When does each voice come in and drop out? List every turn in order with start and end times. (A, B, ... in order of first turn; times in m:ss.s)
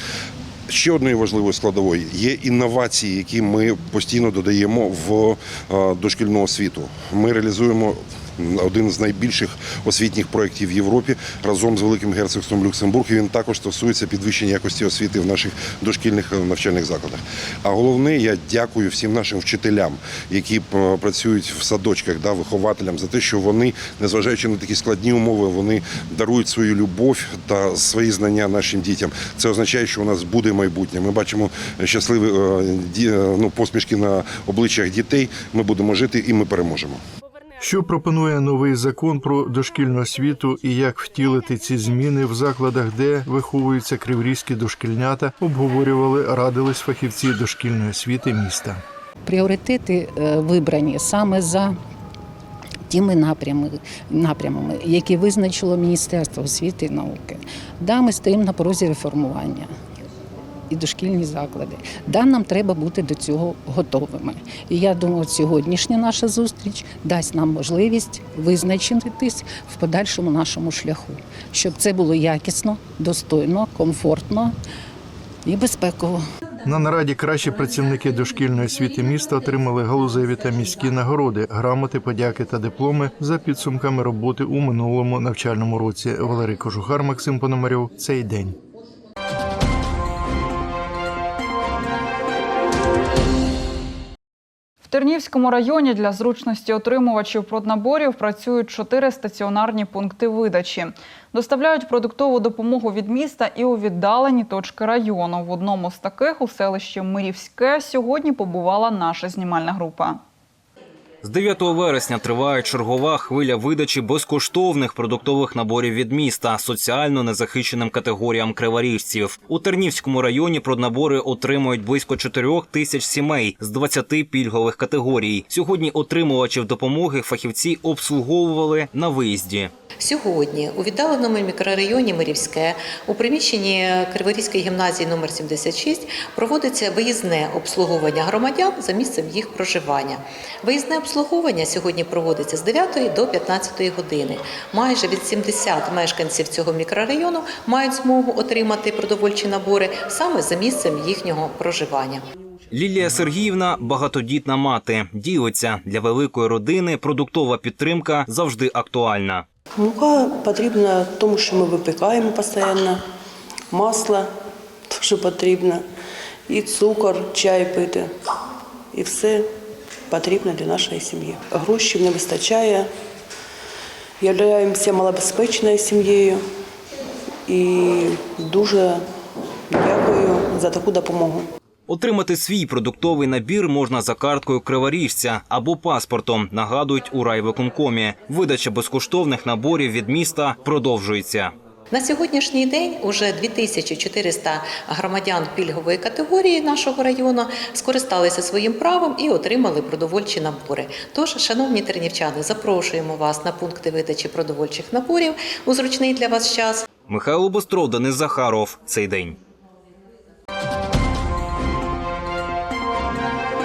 0:00.7-0:37.0 A
0:37.6-0:48.8 B
0:49.2-0:51.8 C
0:52.9-0:59.7 C
1:00.7-1:14.5 C
1:15.4-1:16.2 C
1:16.6-1:28.6 B
1:34.8-1:50.2 D
1:51.2-2:09.7 E
2:10.0-2:32.2 F
2:32.7-2:39.4 E
2:39.8-2:43.0 G
2:43.7-2:44.3 G
2:44.9-2:45.8 G
2:46.5-2:48.1 G
2:48.9-2:49.5 G
2:50.1-2:52.9 G
2:54.2-2:56.4 G
2:57.5-2:59.0 G
2:59.7-3:01.5 G
3:01.9-3:11.5 E
3:11.9-3:26.8 F
3:27.1-3:29.4 E